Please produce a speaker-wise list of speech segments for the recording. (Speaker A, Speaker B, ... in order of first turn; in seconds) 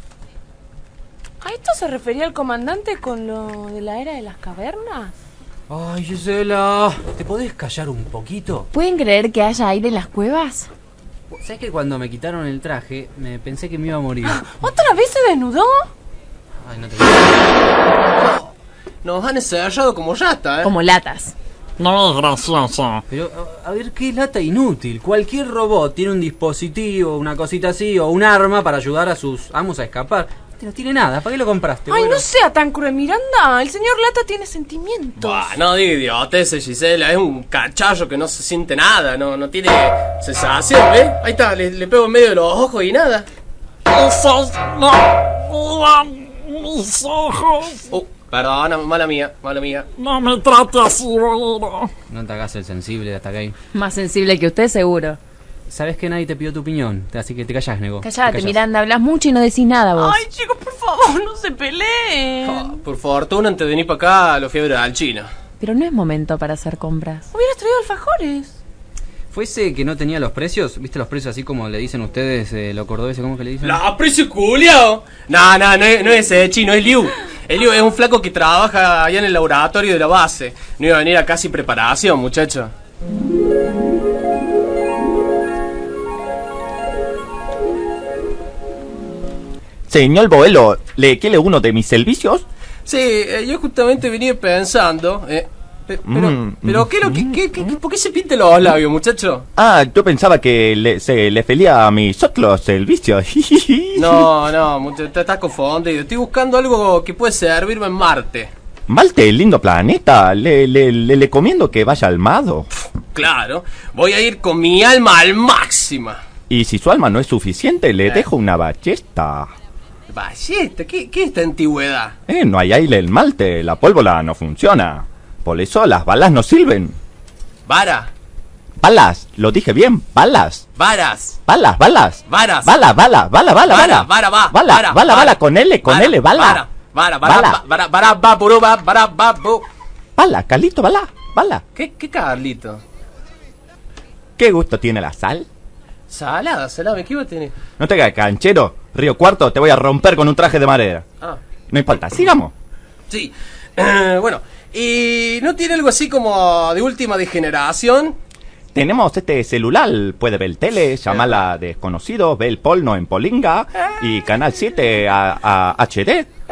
Speaker A: 1.4-5.2, 14.2-15.9, 31.9-35.5, 60.0-62.7, 67.3-68.5
Speaker B: 5.7-8.7, 11.3-14.5, 16.6-17.4, 23.1-32.3, 52.1-53.5, 55.7-58.6, 69.3-73.8
Speaker C: 8.7-10.7, 20.6-21.4, 53.7-55.2, 58.0-60.2, 65.6-67.3
Speaker D: 18.2-18.5, 19.0-20.7, 35.2-43.3, 47.9-49.9, 62.4-65.3, 73.6-82.7, 92.8-99.5, 104.0-108.5, 113.1-116.2, 120.1-122.2, 127.7-128.1, 130.8-131.4, 132.3-132.9, 133.7-139.7, 141.8-142.8, 146.1-147.5, 153.1-158.2, 161.1-161.4
Speaker E: 21.8-23.0, 43.9-47.9, 50.0-51.9
Speaker F: 89.9-92.5, 96.1-96.9, 99.6-104.3, 108.9-112.7, 116.5-119.5, 122.3-127.0, 128.8-130.7, 131.5-136.7, 137.2-137.6, 140.2-141.6, 144.4-145.5, 147.8-151.1, 151.7-152.5, 158.7-166.3